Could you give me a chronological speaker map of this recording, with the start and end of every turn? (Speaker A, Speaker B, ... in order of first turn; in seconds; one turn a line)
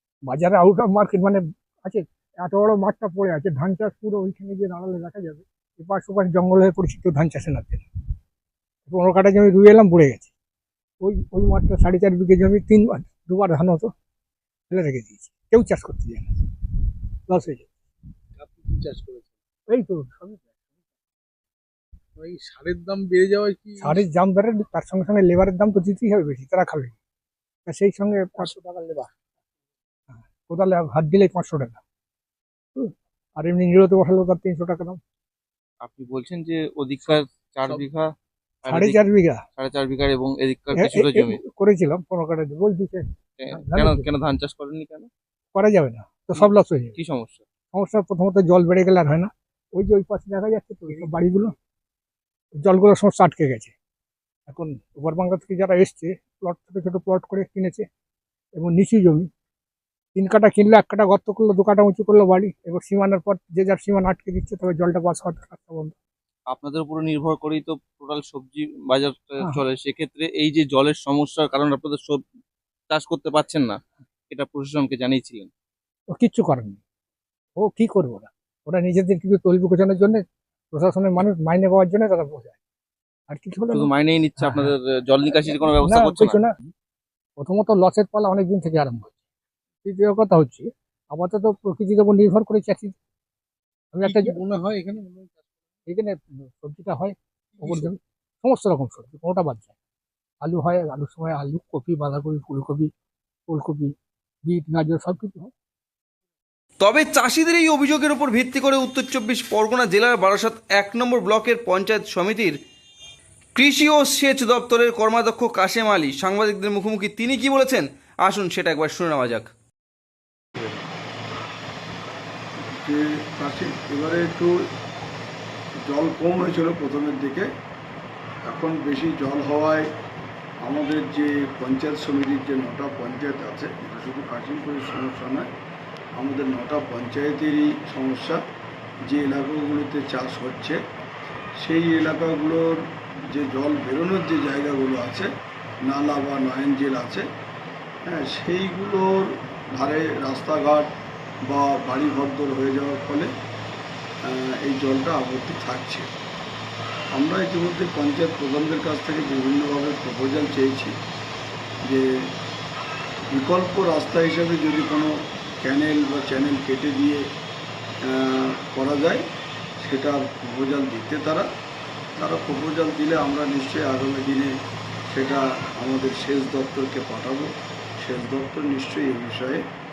Speaker A: 0.3-7.9
Speaker A: 8.8-10.3
Speaker A: 11.0-13.9
Speaker A: 14.7-16.4
Speaker A: 17.3-17.7
Speaker B: 18.4-19.3
Speaker A: 19.7-20.4
Speaker B: 22.2-24.1
Speaker A: 23.8-26.9
Speaker A: 27.7-28.5
Speaker B: 28.4-29.1
Speaker A: 30.1-31.8
Speaker A: 32.8-35.0
Speaker C: 35.8-41.4
Speaker A: 38.7-39.4
Speaker A: 40.7-44.1
Speaker C: 43.4-45.1
Speaker A: 45.5-46.9
Speaker C: 46.3-47.5
Speaker A: 47.7-51.5
Speaker A: 52.6-53.7
Speaker A: 54.5-57.9
Speaker A: 58.6-59.3
Speaker A: 60.1-65.9
Speaker C: 66.5-72.2
Speaker C: 72.9-75.5
Speaker A: 76.1-76.8
Speaker A: 77.6-82.6
Speaker A: 83.3-84.7
Speaker C: 83.7-86.5
Speaker A: 85.5-86.5
Speaker A: 87.4-89.1
Speaker A: 89.8-92.9
Speaker A: 93.9-94.4
Speaker B: 94.0-95.4
Speaker A: 95.9-99.7
Speaker B: 97.6-97.9
Speaker A: 100.4-102.9
Speaker A: 103.5-103.9
Speaker A: 104.5-105.5
Speaker D: 106.8-112.5
Speaker D: 113.5-119.5
Speaker E: 122.7-124.5
Speaker E: 125.8-127.5
Speaker E: 128.4-129.9
Speaker E: 130.6-135.5
Speaker E: 136.2-138.4
Speaker E: 139.1-140.8
Speaker E: 141.6-145.3
Speaker E: 145.8-147.2
Speaker E: 148.1-150.9
Speaker E: 151.4-153.3
Speaker E: 154.3-156.1
Speaker E: 157.1-160.9
Speaker E: 163.3-167.2
Speaker E: 168.1-169.2
Speaker E: 169.8-171.5
Speaker E: 172.2-174.5
Speaker E: 175.1-179.6